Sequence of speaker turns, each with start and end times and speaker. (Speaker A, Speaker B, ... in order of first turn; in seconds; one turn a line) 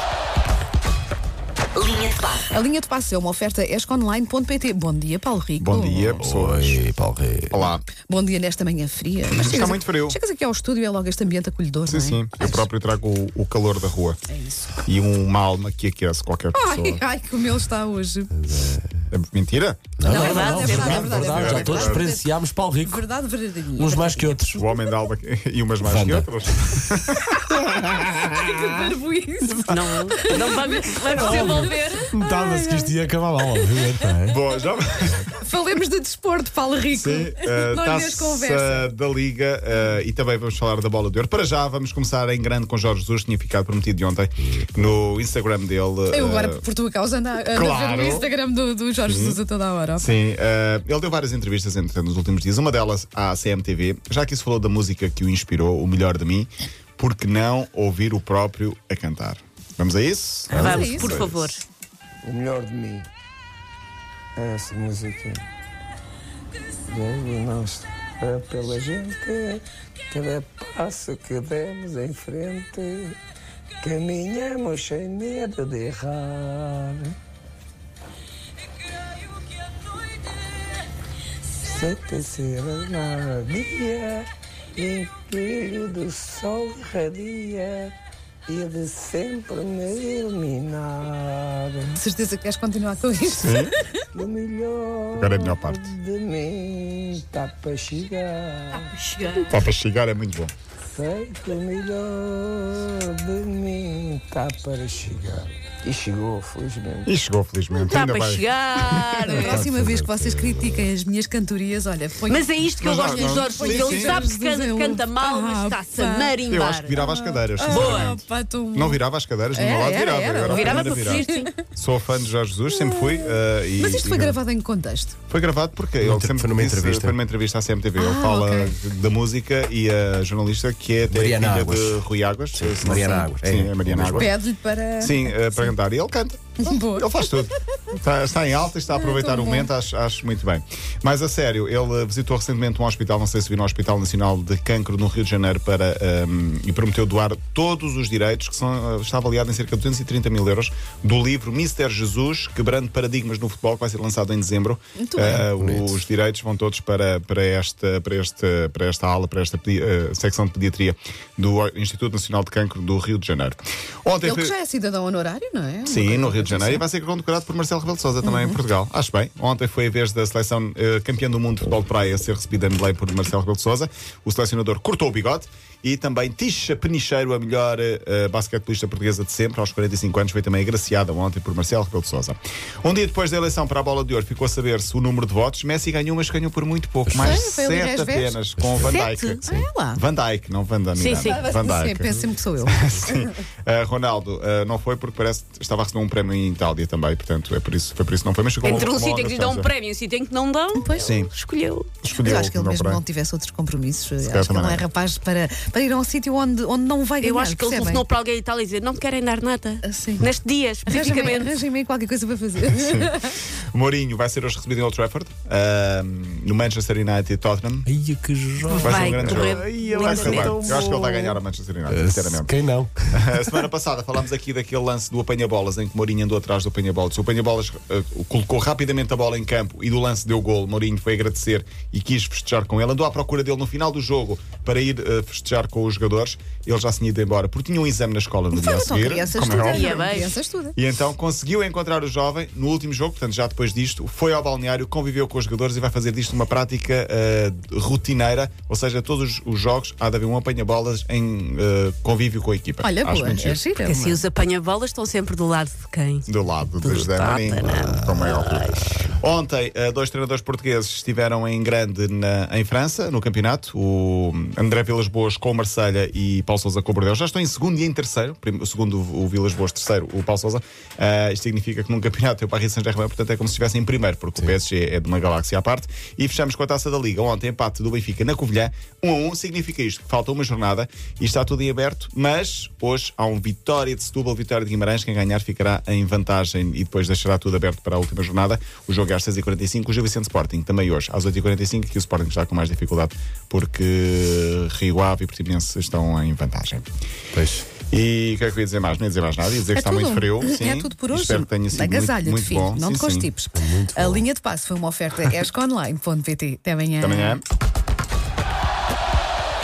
Speaker A: 2.5-6.2
Speaker B: 5.6-6.8
Speaker C: 6.2-7.7
Speaker B: 7.5-7.9
Speaker A: 8.1-12.7
Speaker B: 9.3-10.2
Speaker B: 11.9-14.2
Speaker A: 14.3-14.8
Speaker B: 14.8-17.0
Speaker A: 16.5-18.3
Speaker C: 18.4-19.0
Speaker B: 19.1-19.9
Speaker C: 20.0-23.0
Speaker A: 20.1-24.4
Speaker D: 20.1-21.6
Speaker B: 20.5-22.1
Speaker C: 23.7-24.6
Speaker B: 24.5-27.6
Speaker C: 25.8-26.7
Speaker A: 27.5-33.0
Speaker D: 29.7-32.0
Speaker C: 31.1-34.4
Speaker A: 33.5-34.0
Speaker B: 34.3-35.3
Speaker A: 35.4-38.9
Speaker B: 36.9-46.6
Speaker A: 46.1-50.1
Speaker B: 47.5-48.3
Speaker B: 49.1-49.4
Speaker B: 50.0-61.3
Speaker C: 60.5-61.4
Speaker D: 60.5-61.6
Speaker A: 60.5-61.1
Speaker E: 62.2-63.1
Speaker E: 64.4-65.4
Speaker E: 66.9-73.2
Speaker E: 73.8-77.1
Speaker E: 81.6-87.9
Speaker E: 88.5-92.0
Speaker A: 92.0-94.0
Speaker B: 93.3-93.8
Speaker E: 94.1-98.9
Speaker B: 95.2-95.9
Speaker D: 98.7-99.5
Speaker B: 99.5-100.5
Speaker E: 100.9-107.1
Speaker B: 107.1-109.3
Speaker D: 107.8-109.6
Speaker A: 109.2-116.4
Speaker C: 109.3-110.9
Speaker D: 112.3-116.9
Speaker B: 112.8-114.2
Speaker B: 116.5-124.4
Speaker A: 116.9-119.0
Speaker D: 117.7-118.1
Speaker A: 119.5-121.5
Speaker D: 120.4-121.5
Speaker A: 122.8-125.1
Speaker B: 125.3-134.3
Speaker C: 126.0-127.2
Speaker A: 128.0-128.7
Speaker C: 131.1-134.3
Speaker A: 134.1-135.7
Speaker B: 135.0-164.6
Speaker A: 136.6-137.3
Speaker A: 138.9-139.7
Speaker A: 155.0-155.5
Speaker C: 155.3-156.0
Speaker A: 164.2-166.8
Speaker B: 165.8-189.4
Speaker A: 168.2-168.6
Speaker C: 187.1-187.5
Speaker A: 187.2-188.4
Speaker C: 188.6-189.7
Speaker D: 188.9-189.4
Speaker A: 189.5-190.0
Speaker B: 189.9-192.1
Speaker D: 191.0-191.4
Speaker A: 191.2-193.2
Speaker B: 192.7-199.7
Speaker D: 198.6-201.9
Speaker A: 200.8-201.1
Speaker B: 201.0-201.3
Speaker B: 202.0-203.0
Speaker A: 202.1-208.0
Speaker B: 204.2-204.8
Speaker D: 207.2-211.5
Speaker A: 209.8-210.3
Speaker A: 210.9-213.4
Speaker B: 212.7-213.1
Speaker B: 213.7-217.9
Speaker C: 217.9-223.3
Speaker D: 218.7-220.7
Speaker B: 218.8-222.5
Speaker B: 223.1-240.1
Speaker A: 238.5-240.8
Speaker D: 239.6-240.4
Speaker B: 240.8-253.6
Speaker A: 252.8-254.2
Speaker D: 253.8-256.3
Speaker B: 256.3-296.9
Speaker D: 256.8-258.9
Speaker C: 297.4-297.8
Speaker B: 297.8-303.3
Speaker A: 299.7-307.4
Speaker C: 303.6-304.3
Speaker B: 307.0-307.4